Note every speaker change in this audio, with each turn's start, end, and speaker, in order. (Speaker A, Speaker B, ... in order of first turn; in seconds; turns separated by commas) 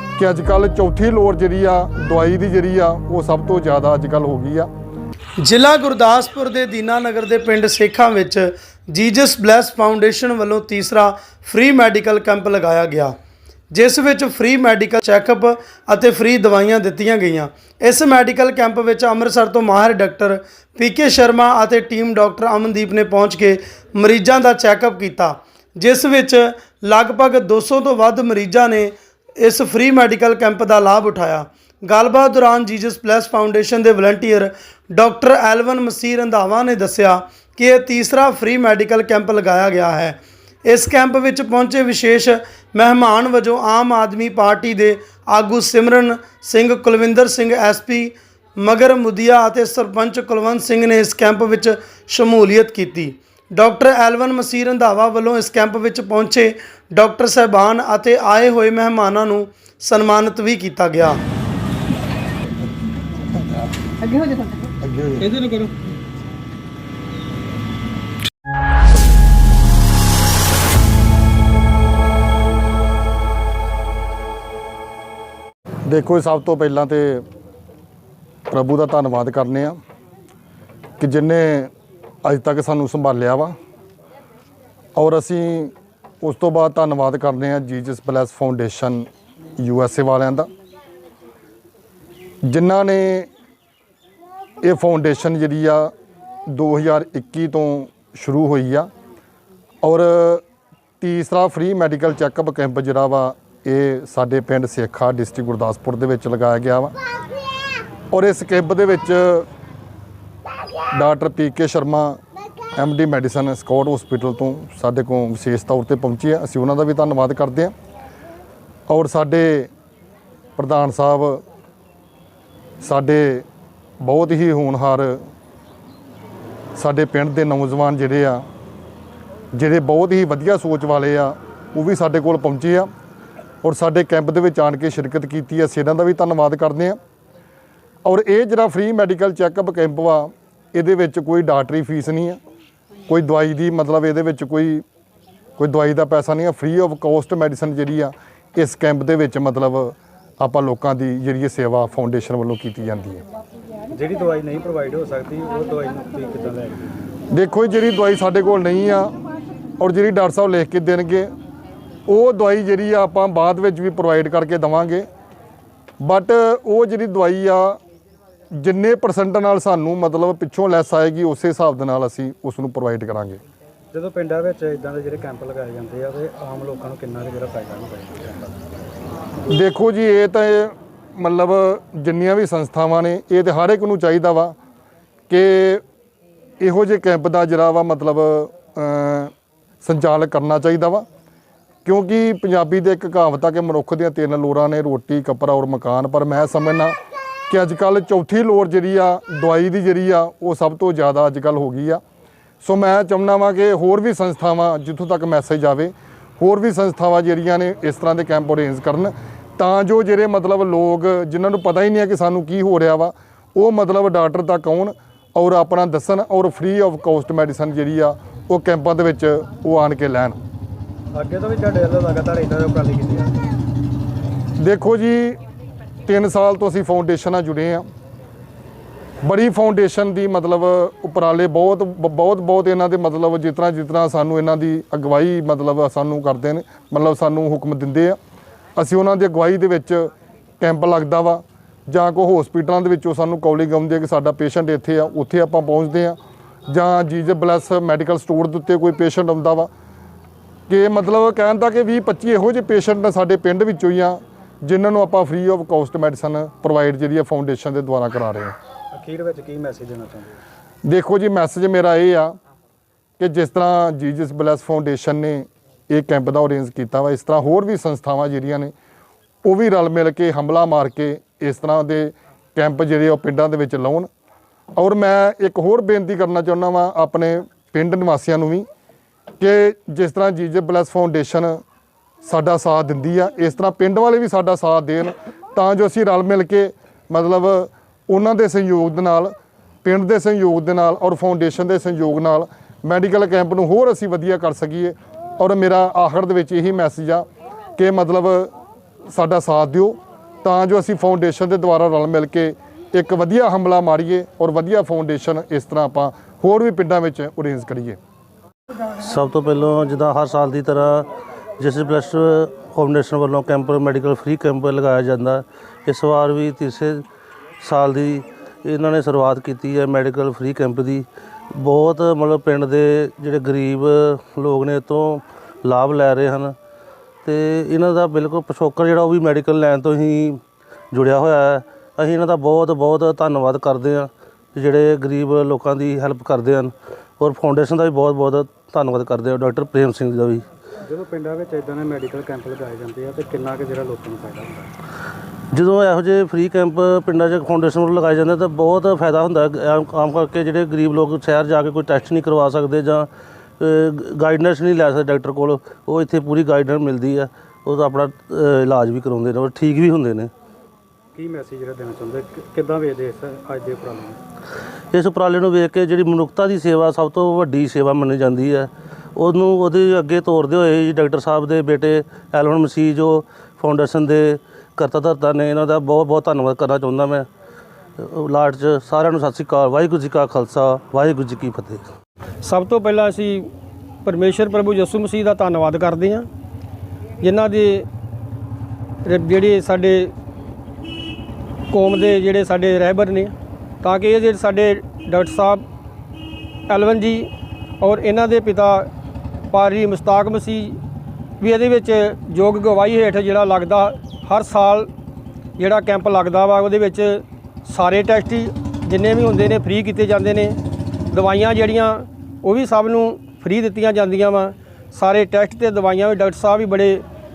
Speaker A: 0.2-4.7, Speaker B: 5.4-13.1, Speaker B: 13.7-61.2, Speaker C: 65.2-65.7, Speaker A: 75.9-77.2, Speaker A: 78.5-79.8, Speaker A: 81.0-81.7, Speaker A: 82.2-83.5, Speaker A: 85.0-90.5, Speaker A: 92.4-93.3, Speaker A: 94.6-95.9, Speaker A: 96.5-98.9, Speaker A: 99.8-100.4, Speaker A: 101.0-106.9, Speaker A: 108.1-109.5, Speaker A: 110.9-112.2, Speaker A: 112.8-117.7, Speaker A: 118.9-119.7, Speaker A: 120.6-121.4, Speaker A: 122.8-123.4, Speaker A: 124.0-125.2, Speaker A: 126.8-128.4, Speaker A: 129.5-132.9, Speaker A: 133.6-137.0, Speaker A: 138.0-142.4, Speaker A: 143.1-144.8, Speaker A: 145.6-153.2, Speaker D: 153.9-156.8, Speaker A: 157.3-159.1, Speaker A: 159.8-161.3, Speaker A: 162.1-165.1, Speaker A: 166.0-167.8, Speaker A: 168.6-173.4, Speaker D: 173.9-178.6, Speaker A: 179.5-184.5, Speaker A: 185.3-185.8, Speaker A: 186.6-191.0, Speaker A: 191.8-196.9, Speaker A: 197.5-202.0, Speaker A: 202.6-220.4, Speaker D: 221.2-223.5, Speaker A: 224.6-225.4, Speaker A: 226.1-227.9, Speaker A: 229.2-238.2, Speaker A: 238.8-249.7, Speaker A: 250.7-258.5, Speaker D: 258.9-260.4, Speaker A: 260.9-262.3, Speaker A: 263.2-268.7, Speaker A: 269.4-274.1, Speaker A: 274.8-278.7, Speaker A: 279.4-281.6, Speaker A: 282.2-289.3, Speaker A: 289.8-297.2, Speaker A: 297.8-298.5, Speaker A: 299.1-308.0, Speaker E: 309.0-311.1, Speaker E: 311.6-317.0, Speaker E: 317.6-326.6, Speaker E: 327.2-330.4, Speaker E: 330.9-340.4, Speaker D: 340.9-344.7, Speaker E: 345.5-353.1, Speaker E: 353.6-360.3, Speaker D: 361.1-364.2, Speaker E: 364.9-377.3, Speaker E: 378.0-381.8, Speaker C: 382.4-383.5, Speaker C: 384.0-386.3, Speaker C: 387.2-387.9, Speaker C: 389.0-390.1, Speaker C: 391.7-395.6, Speaker C: 396.7-397.3, Speaker C: 397.8-398.9, Speaker C: 399.5-400.8, Speaker C: 401.4-404.9, Speaker C: 405.6-410.6, Speaker C: 411.1-417.0